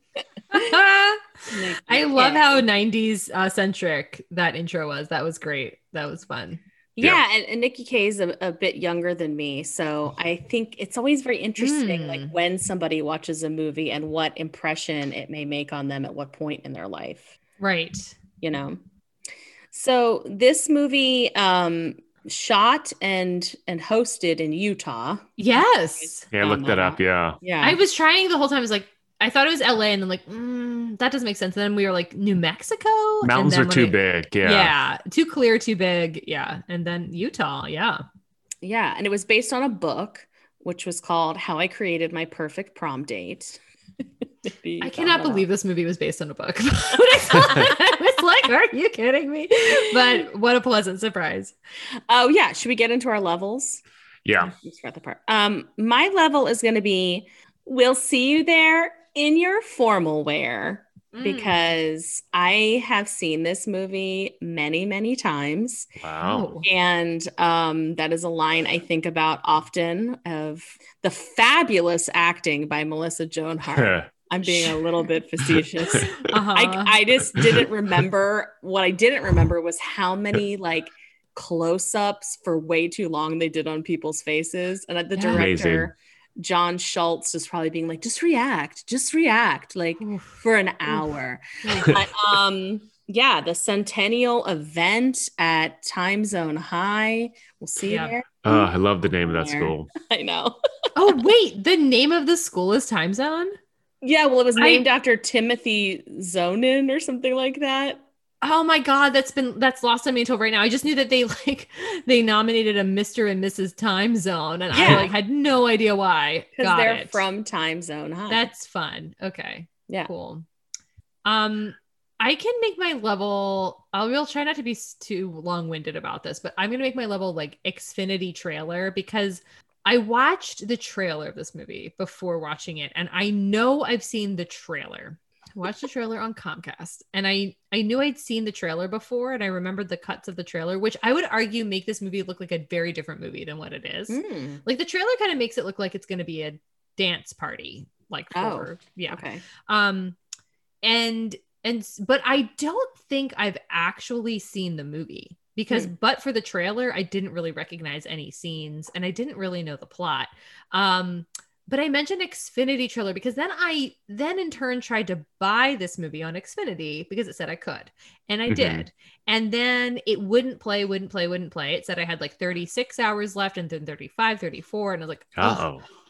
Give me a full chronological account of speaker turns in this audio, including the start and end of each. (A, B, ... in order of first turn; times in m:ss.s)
0:00.5-0:06.6 A
0:01.5-0:02.6 B
0:07.0-0:17.4 B
0:11.6-0:12.3 A
0:17.6-0:18.2 A
0:18.4-0:18.8 B
0:19.7-0:25.3 B
0:25.4-0:26.3 A
0:26.2-0:27.8 B
0:26.3-0:27.4 C
0:27.6-0:38.0 A
0:33.2-0:34.7 C
0:38.6-0:43.6 B
0:44.4-0:45.5 B
0:44.8-0:51.6 A
0:47.5-0:47.7 B
0:49.7-0:50.2 B
0:52.1-0:53.8 B
0:54.2-0:54.5 C
0:54.4-1:05.9 B
1:01.1-1:01.6 A
1:06.0-1:06.5 C
1:06.2-1:06.6 A
1:06.6-1:38.7 B
1:13.7-1:14.1 C
1:15.9-1:17.0 A
1:17.4-1:17.6 C
1:25.2-1:25.5 A
1:25.3-1:25.9 C
1:30.0-1:31.1 A
1:31.6-1:31.9 A
1:37.8-1:38.2 A
1:38.4-1:39.9 C
1:39.2-1:40.6 B
1:41.0-1:43.6 A
1:44.0-1:48.0 B
1:44.6-1:44.8 A
1:48.4-1:57.2 A
1:54.7-1:55.1 B
1:56.6-1:58.4 B
1:58.3-2:00.4 A
2:01.2-2:30.2 A
2:24.1-2:24.6 B
2:28.3-2:29.4 B
2:30.8-2:55.7 A
2:48.5-2:48.9 C
2:55.4-2:55.8 C